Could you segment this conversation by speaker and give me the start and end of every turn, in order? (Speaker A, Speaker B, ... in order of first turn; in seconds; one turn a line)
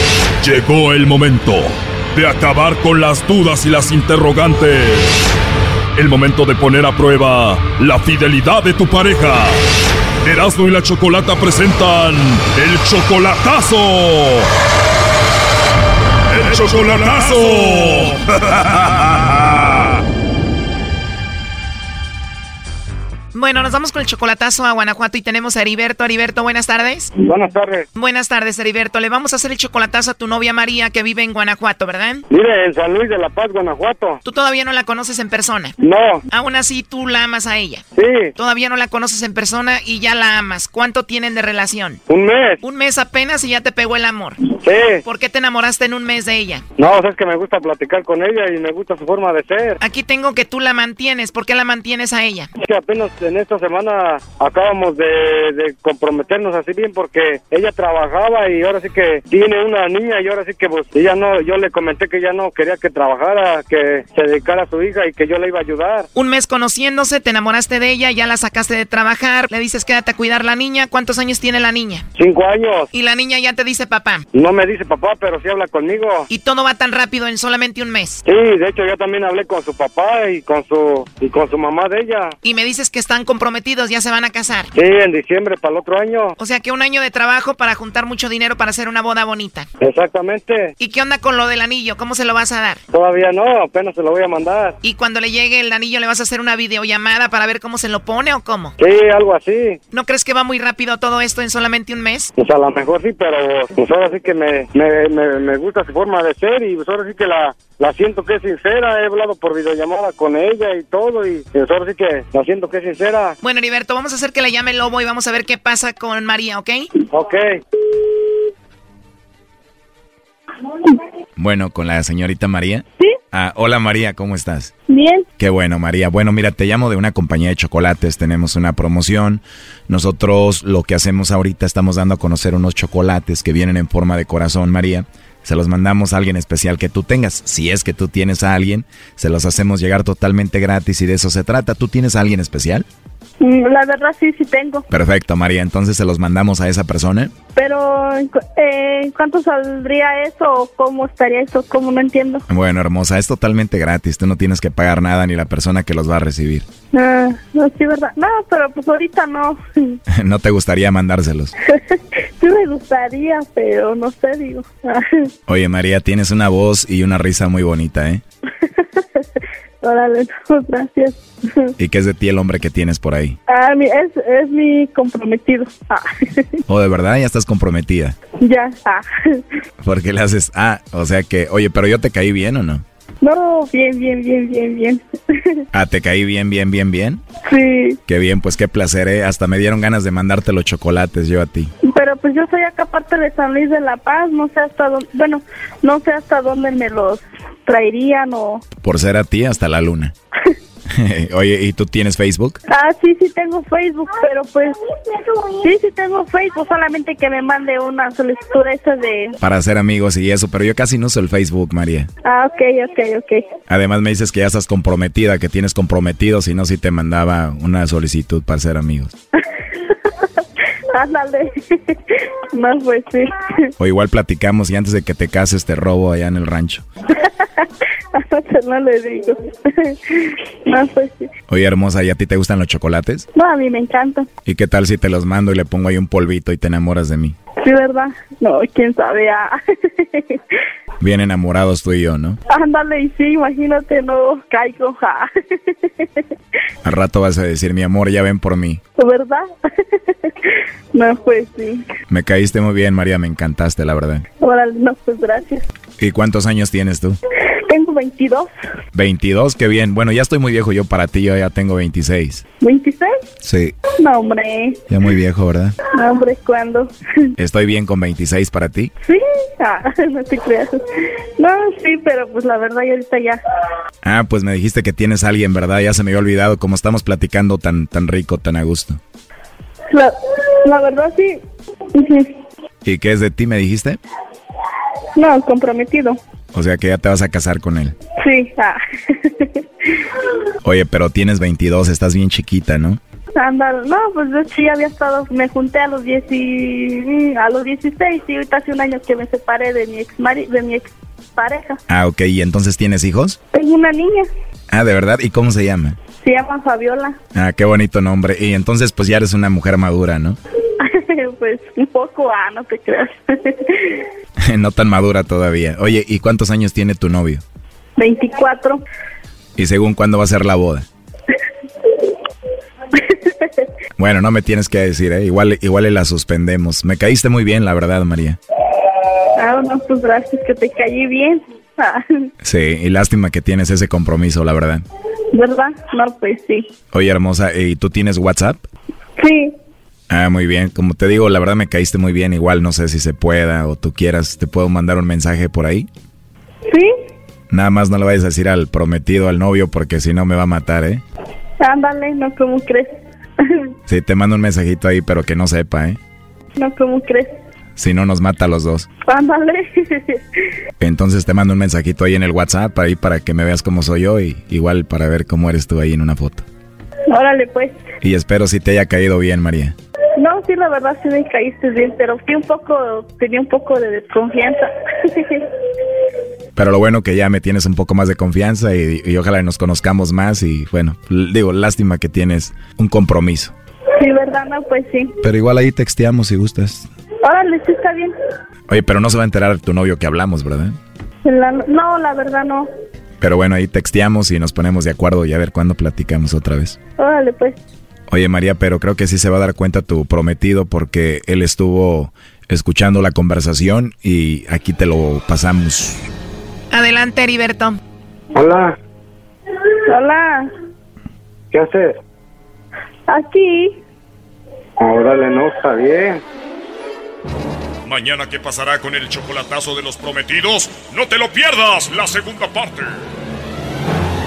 Speaker A: 0.4-5.3
Speaker A: 6.0-9.6
Speaker A: 10.2-14.5
Speaker A: 16.3-20.0
Speaker B: 23.3-27.1
Speaker C: 27.2-27.9
Speaker B: 28.0-32.2
Speaker C: 32.3-34.2
Speaker B: 34.2-35.8
Speaker C: 35.8-36.2
Speaker B: 36.3-37.8
Speaker C: 38.0-38.4
Speaker B: 38.4-42.0
Speaker C: 42.1-42.6
Speaker B: 42.6-44.4
Speaker C: 44.5-45.0
Speaker B: 45.0-46.6
Speaker C: 46.8-49.8
Speaker B: 49.8-52.5
Speaker C: 52.6-66.1
Speaker B: 66.2-72.1
Speaker C: 72.2-72.9
Speaker B: 72.9-74.2
Speaker C: 74.3-76.3
Speaker B: 76.3-78.2
Speaker C: 78.2-82.4
Speaker B: 82.4-84.7
Speaker C: 84.8-86.4
Speaker B: 86.4-89.7
Speaker C: 89.8-90.7
Speaker B: 90.8-92.8
Speaker C: 92.9-94.8
Speaker B: 94.8-98.8
Speaker C: 98.8-99.8
Speaker B: 99.9-102.3
Speaker C: 102.4-113.4
Speaker B: 113.4-116.9
Speaker C: 117.1-117.5
Speaker D: 121.4-124.7
Speaker E: 124.9-125.3
Speaker D: 125.4-142.9
Speaker E: 143.4-144.9
Speaker D: 144.9-147.3
Speaker E: 147.6-152.4
Speaker D: 152.5-156.7
Speaker E: 156.9-160.0
Speaker D: 160.1-161.5
Speaker E: 161.7-165.3
Speaker D: 165.5-168.2
Speaker E: 168.7-169.2
Speaker E: 169.8-171.7
Speaker D: 171.8-173.4
Speaker E: 173.5-176.6
Speaker D: 176.7-178.2
Speaker E: 178.4-179.4
Speaker D: 179.8-182.8
Speaker E: 183.2-185.6
Speaker D: 185.7-187.2
Speaker E: 187.4-188.0
Speaker D: 188.1-191.7
Speaker E: 191.8-198.6
Speaker D: 198.8-200.1
Speaker D: 200.9-202.6
Speaker E: 202.7-204.8
Speaker E: 205.5-209.4
Speaker D: 209.4-212.1
Speaker E: 212.2-213.5
Speaker D: 213.7-219.1
Speaker E: 220.9-223.7
Speaker D: 223.8-226.8
Speaker E: 227.2-231.3
Speaker D: 231.5-233.3
Speaker E: 233.3-234.3
Speaker D: 234.4-237.4
Speaker E: 237.6-240.4
Speaker D: 241.0-242.4
Speaker E: 242.5-246.3
Speaker D: 246.8-248.8
Speaker E: 249.0-251.8
Speaker D: 252.1-254.3
Speaker E: 254.4-255.7
Speaker D: 256.0-257.2
Speaker E: 257.7-258.5
Speaker D: 258.9-262.4
Speaker E: 262.6-263.2
Speaker D: 263.4-263.8
Speaker E: 264.0-264.8
Speaker D: 264.9-265.8
Speaker E: 265.9-267.3
Speaker D: 267.4-268.9
Speaker E: 269.0-270.8
Speaker E: 271.4-273.4
Speaker D: 274.0-279.0
Speaker E: 279.9-281.4
Speaker E: 281.9-282.3
Speaker D: 282.8-284.0
Speaker E: 285.2-286.2
Speaker D: 286.5-288.0
Speaker E: 288.2-290.0
Speaker D: 290.6-293.0
Speaker E: 293.4-301.8
Speaker D: 301.9-303.4
Speaker E: 303.5-304.3
Speaker D: 304.7-306.0
Speaker E: 306.2-307.2
Speaker D: 307.3-310.4
Speaker E: 310.8-314.1
Speaker D: 314.4-317.4
Speaker E: 318.0-318.8
Speaker D: 319.6-320.9
Speaker E: 323.0-323.4
Speaker D: 324.0-328.4
Speaker E: 329.4-332.3
Speaker D: 332.4-334.8
Speaker E: 335.3-336.7
Speaker D: 336.9-338.6
Speaker E: 339.2-339.6
Speaker D: 340.1-345.9
Speaker D: 347.5-351.0
Speaker E: 351.6-352.9
Speaker D: 353.9-356.0
Speaker E: 356.6-357.3
Speaker D: 357.8-358.9
Speaker E: 359.1-360.2
Speaker D: 360.8-366.5
Speaker E: 367.1-367.8
Speaker D: 368.0-369.8
Speaker E: 370.2-375.5
Speaker D: 376.6-383.5
Speaker E: 384.0-385.1
Speaker D: 385.2-386.9
Speaker E: 387.2-388.1
Speaker D: 388.7-390.8
Speaker E: 391.2-392.7
Speaker D: 393.2-396.8
Speaker E: 397.0-397.6
Speaker D: 398.1-406.1
Speaker B: 406.7-407.8
Speaker C: 408.3-408.8
Speaker E: 409.9-410.5
Speaker C: 411.5-412.0
Speaker E: 413.1-413.8
Speaker C: 414.8-416.2
Speaker A: 417.9-423.0